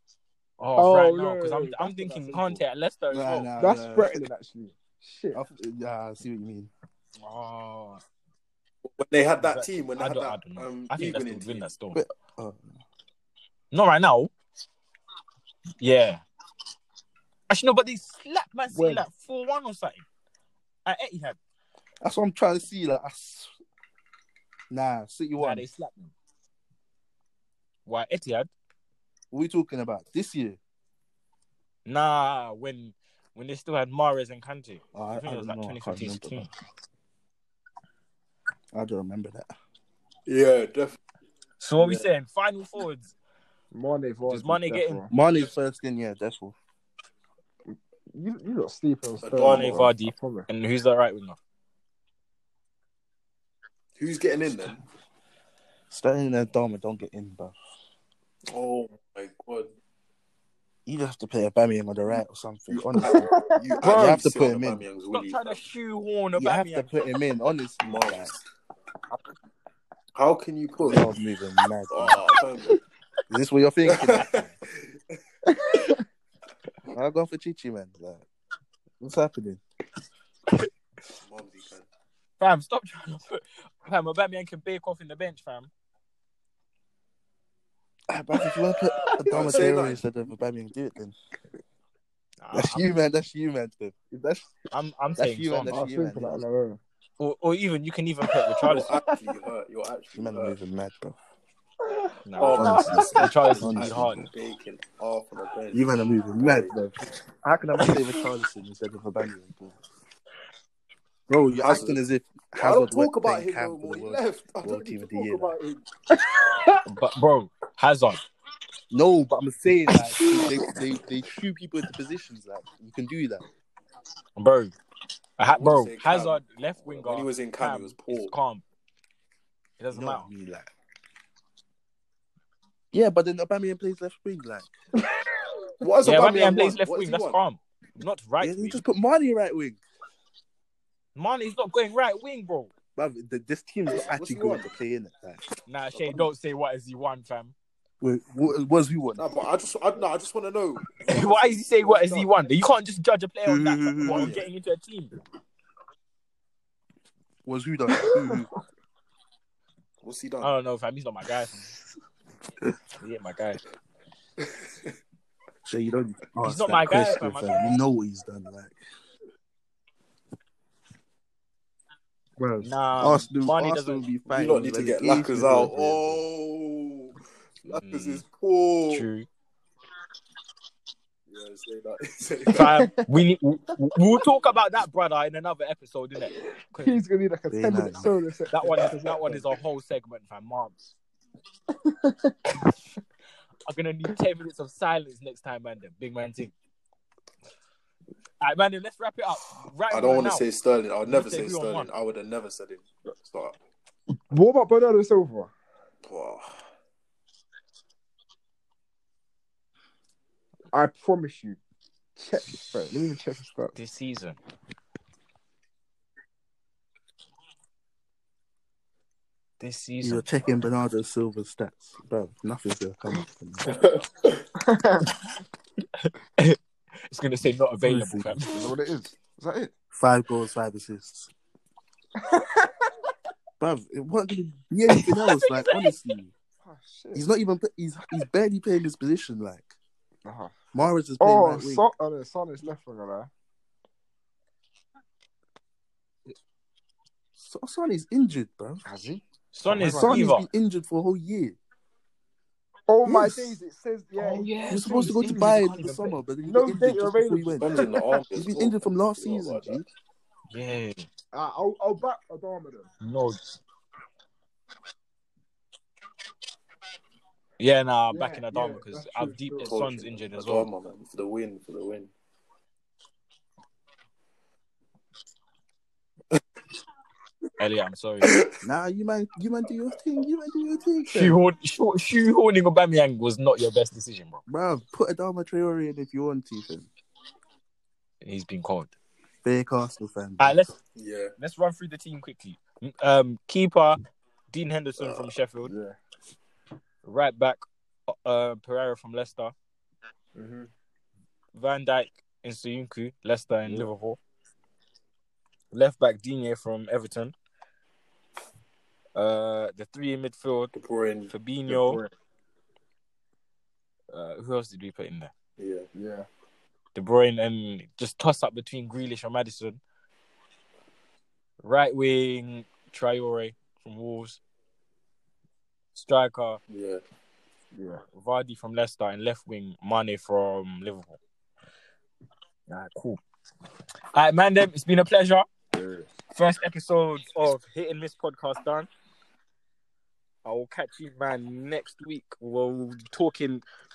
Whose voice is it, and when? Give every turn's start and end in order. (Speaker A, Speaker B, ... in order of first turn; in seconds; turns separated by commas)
Speaker A: 0.6-3.5, Speaker B: 0.8-2.6, Speaker C: 3.1-4.2, Speaker B: 3.6-5.4, Speaker C: 5.3-6.7, Speaker A: 7.2-8.0, Speaker D: 8.8-11.7, Speaker A: 9.4-12.0, Speaker C: 11.9-12.6, Speaker A: 13.7-14.3, Speaker A: 15.8-16.2, Speaker A: 17.5-20.1, Speaker B: 18.7-19.1, Speaker A: 20.9-21.4, Speaker C: 22.0-23.5, Speaker C: 24.7-25.6, Speaker A: 25.4-26.1, Speaker A: 27.9-28.5, Speaker C: 29.3-30.6, Speaker A: 31.9-36.5, Speaker C: 34.9-36.5, Speaker C: 38.7-39.5, Speaker D: 40.3-41.0, Speaker A: 41.6-43.1, Speaker D: 41.8-42.1, Speaker B: 43.7-45.1, Speaker A: 44.3-45.0, Speaker C: 45.1-46.6, Speaker B: 47.7-50.5, Speaker D: 49.2-49.9, Speaker A: 49.5-51.4, Speaker D: 54.0-54.8, Speaker C: 55.9-57.5, Speaker D: 58.5-59.7, Speaker C: 60.9-63.3, Speaker D: 62.7-65.6, Speaker B: 63.0-64.2, Speaker C: 63.8-64.9, Speaker A: 65.1-67.0, Speaker C: 66.4-68.3, Speaker D: 67.8-68.4, Speaker D: 70.2-71.0, Speaker C: 70.8-72.2, Speaker D: 71.9-72.8, Speaker C: 73.3-74.5, Speaker D: 73.8-75.2, Speaker B: 75.5-76.0, Speaker C: 76.9-78.3, Speaker C: 79.0-79.6, Speaker D: 81.2-81.9, Speaker A: 82.4-85.7, Speaker C: 88.1-91.2, Speaker D: 89.3-90.0, Speaker A: 92.4-92.9, Speaker C: 92.5-94.5, Speaker A: 94.7-95.7, Speaker C: 95.2-96.4, Speaker B: 95.6-96.8, Speaker A: 97.2-98.9, Speaker B: 98.5-99.0, Speaker D: 98.7-100.6, Speaker C: 100.2-101.2, Speaker A: 102.2-104.2, Speaker D: 102.4-106.7, Speaker C: 102.5-104.3, Speaker C: 105.7-109.8, Speaker C: 111.3-115.5, Speaker D: 111.6-112.0, Speaker D: 112.5-115.8, Speaker B: 116.1-116.8, Speaker A: 116.9-118.2, Speaker C: 118.9-123.4, Speaker B: 120.2-120.6, Speaker A: 124.4-124.8, Speaker A: 125.4-128.6, Speaker D: 125.5-128.4, Speaker A: 129.8-130.3, Speaker C: 129.9-130.7, Speaker C: 132.9-134.7, Speaker D: 135.8-137.4, Speaker A: 136.0-138.8, Speaker C: 138.4-139.8, Speaker A: 141.2-142.7, Speaker C: 142.9-145.4, Speaker D: 143.9-144.7, Speaker A: 145.7-147.5, Speaker D: 145.9-146.3, Speaker C: 148.0-149.3, Speaker D: 149.2-152.3, Speaker A: 151.1-155.1, Speaker C: 153.5-154.3, Speaker D: 154.0-154.5, Speaker C: 157.4-158.5, Speaker B: 158.0-158.4, Speaker D: 160.0-160.5, Speaker A: 160.4-161.7, Speaker A: 163.0-163.6, Speaker C: 165.7-168.8, Speaker A: 166.4-167.8, Speaker C: 172.4-176.2, Speaker A: 172.6-174.1, Speaker D: 174.3-179.1, Speaker A: 177.7-178.2, Speaker A: 178.9-179.3, Speaker D: 181.3-182.8, Speaker A: 182.5-187.0, Speaker B: 182.7-183.1, Speaker B: 186.8-189.5, Speaker C: 187.5-188.2, Speaker A: 188.5-191.0, Speaker B: 191.7-192.6, Speaker A: 193.7-196.5, Speaker A: 198.4-200.4, Speaker D: 199.9-203.6, Speaker A: 201.1-201.9, Speaker B: 204.3-205.5, Speaker D: 206.1-206.6, Speaker B: 210.7-211.6, Speaker B: 212.2-213.8, Speaker A: 213.8-214.4, Speaker A: 219.6-220.3, Speaker C: 220.0-223.9, Speaker D: 223.7-224.4, Speaker B: 224.6-225.2, Speaker A: 226.0-228.6, Speaker C: 227.8-228.4, Speaker B: 228.4-229.7, Speaker C: 229.9-231.3, Speaker B: 232.2-232.9, Speaker C: 233.6-236.3, Speaker A: 234.9-235.9, Speaker B: 236.6-237.2, Speaker C: 237.1-239.7, Speaker B: 240.2-240.6, Speaker C: 240.7-241.9, Speaker B: 241.2-243.3, Speaker C: 247.4-248.8, Speaker B: 248.8-250.3, Speaker A: 249.5-250.5, Speaker C: 249.7-251.6, Speaker B: 252.9-255.6, Speaker C: 253.1-253.6, Speaker A: 254.2-256.2, Speaker C: 254.7-259.9, Speaker B: 256.4-258.0, Speaker D: 257.6-259.8, Speaker A: 260.5-261.1, Speaker B: 261.3-262.9, Speaker A: 263.0-263.6, Speaker A: 267.6-270.7, Speaker B: 268.1-269.8, Speaker D: 269.6-272.1, Speaker A: 277.6-278.4, Speaker D: 278.2-278.5, Speaker C: 278.6-281.4, Speaker A: 281.1-284.4, Speaker C: 284.5-286.9, Speaker A: 288.2-288.9, Speaker C: 289.4-290.6, Speaker A: 290.4-290.7, Speaker D: 291.0-291.4, Speaker A: 291.4-294.0, Speaker A: 294.5-295.7, Speaker D: 295.0-295.3, Speaker B: 295.6-296.0, Speaker A: 297.0-299.5, Speaker B: 300.4-300.6, Speaker A: 301.6-304.2, Speaker A: 305.7-307.4, Speaker A: 309.1-310.7, Speaker D: 310.7-311.3, Speaker A: 311.3-312.0, Speaker B: 311.7-312.1, Speaker A: 314.1-315.3, Speaker D: 315.6-315.9, Speaker B: 315.9-316.3, Speaker A: 316.9-319.8, Speaker A: 321.6-324.4, Speaker A: 325.9-326.6, Speaker D: 326.7-327.0, Speaker B: 327.7-328.0, Speaker A: 328.2-331.2, Speaker A: 332.7-333.2, Speaker A: 334.1-335.5, Speaker B: 335.7-336.1, Speaker A: 336.3-338.9, Speaker A: 340.4-343.6